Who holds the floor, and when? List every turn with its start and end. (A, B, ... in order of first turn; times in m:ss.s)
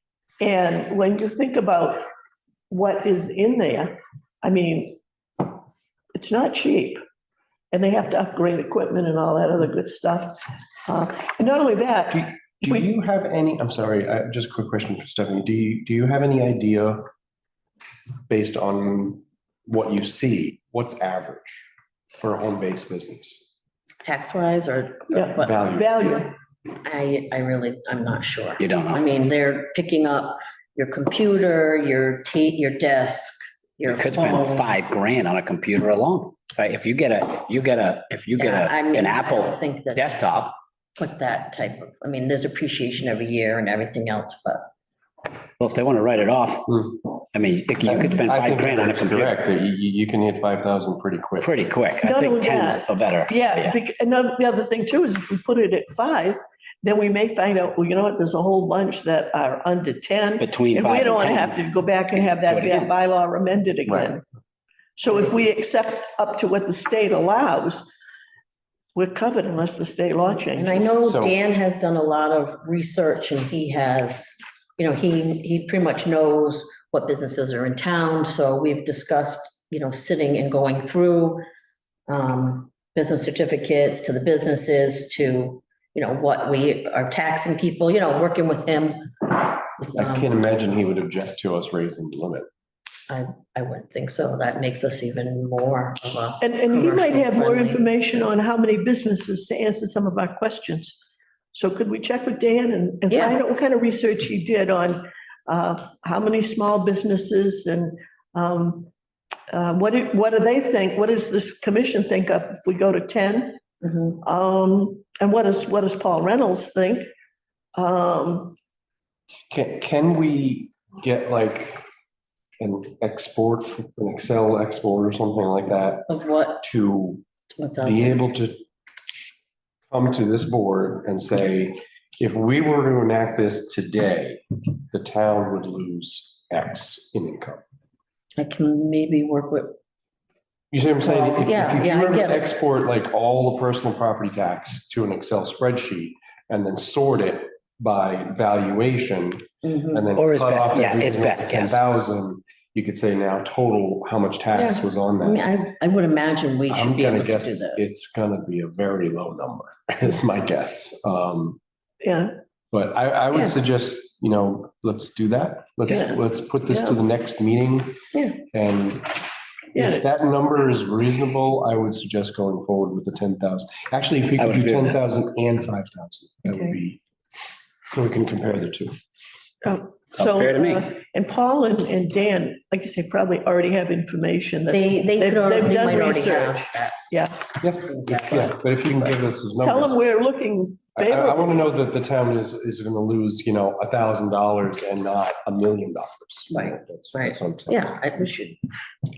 0:00.4-0:02.0 A
0:02.7-0:05.0 A
0:06.1-0:07.0 A
0:07.7-0:12.8 A
0:12.1-0:17.1 B
0:18.3-0:21.6 B
0:22.2-0:23.4 B
0:24.0-0:25.6 C
0:25.1-0:26.3 A
0:25.3-0:25.9 B
0:26.8-0:34.7 C
0:28.6-0:29.0 D
0:33.8-0:40.5 D
0:38.4-0:40.3 C
0:41.0-0:44.6 C
0:45.6-0:49.3 D
0:46.7-0:46.9 B
0:47.8-0:51.5 B
0:51.4-0:53.8 D
0:52.0-1:04.2 A
1:00.4-1:01.6 D
1:02.1-1:02.9 D
1:03.9-1:04.1 B
1:05.0-1:07.9 A
1:08.9-1:11.0 A
1:10.5-1:21.4 C
1:11.0-1:11.4 B
1:22.1-1:30.3 C
1:30.0-1:32.4 B
1:33.1-1:38.0 C
1:36.4-1:41.0 A
1:41.5-1:48.9 A
1:43.1-1:43.4 C
1:49.5-1:53.6 A
1:53.8-1:54.1 C
1:54.2-1:57.1 A
1:57.7-1:58.6 A
1:59.5-2:01.8 B
2:02.6-2:06.1 B
2:06.1-2:06.6 C
2:06.6-2:07.2 B
2:07.6-2:08.2 C
2:07.8-2:08.6 B
2:09.9-2:17.6 B
2:18.4-2:19.7 C
2:20.7-2:35.5 B
2:21.0-2:22.5 C
2:29.6-2:30.1 C
2:30.2-2:31.8 D
2:34.5-2:37.8 C
2:36.7-2:41.6 B
2:42.0-2:42.4 A
2:42.7-2:57.0 B
2:45.9-2:46.2 A
2:49.7-2:50.0 A
2:54.4-2:55.0 D
2:57.9-2:58.9 B
2:59.6-3:07.5 A
3:00.1-3:00.9 D
3:04.7-3:07.0 C
3:07.6-3:10.0 B
3:07.8-3:08.6 C
3:09.6-3:11.6 A
3:11.0-3:17.8 B
3:16.5-3:18.6 C